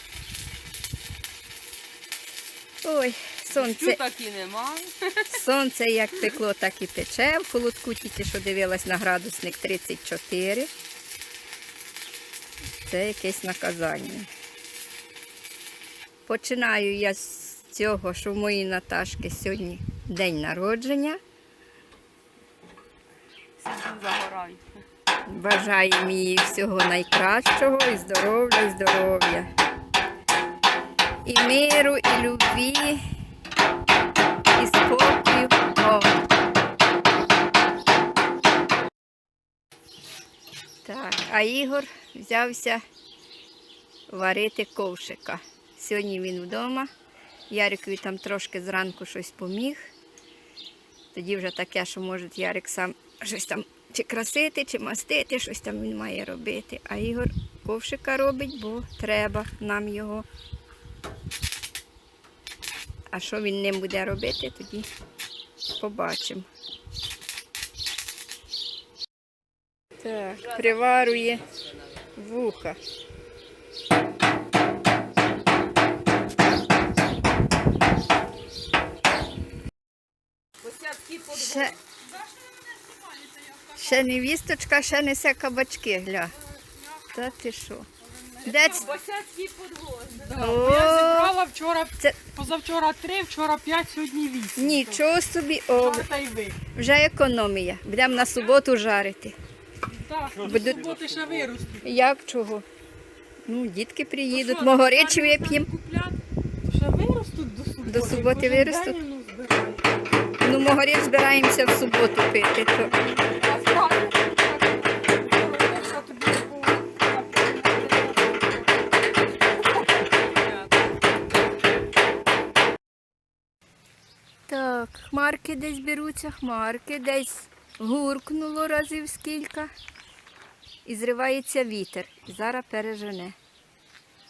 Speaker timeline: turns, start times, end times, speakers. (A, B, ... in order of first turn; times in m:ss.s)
0:02.8-0:04.0 A
0:03.5-0:05.4 B
0:05.3-0:10.7 A
0:12.8-0:14.3 A
0:16.2-0:21.2 A
0:23.6-0:24.6 B
0:25.3-0:29.5 A
0:31.2-0:33.0 A
0:34.5-0:36.2 A
0:40.8-0:42.8 A
0:44.1-0:46.9 A
0:47.5-0:49.9 A
0:51.1-1:00.2 A
1:03.1-1:04.9 A
1:05.8-1:06.5 A
1:10.0-1:11.4 A
1:10.2-1:12.1 B
1:12.2-1:12.8 A
1:20.6-1:21.8 B
1:21.3-1:21.8 A
1:22.0-1:24.0 C
1:23.8-1:26.3 A
1:26.8-1:27.0 C
1:27.1-1:27.9 A
1:28.1-1:29.0 C
1:28.4-1:28.9 A
1:28.5-1:30.5 B
1:30.2-1:35.0 C
1:30.4-1:31.4 A
1:34.6-1:36.1 A
1:35.8-1:36.6 C
1:36.7-1:39.4 A
1:39.9-1:41.8 C
1:40.4-1:41.0 A
1:41.8-1:42.6 A
1:43.4-1:45.7 A
1:44.3-1:49.8 C
1:47.8-1:49.0 A
1:50.4-1:52.9 A
1:52.8-1:58.7 C
1:59.6-2:00.6 C
2:04.5-2:09.7 A
2:10.8-2:13.4 A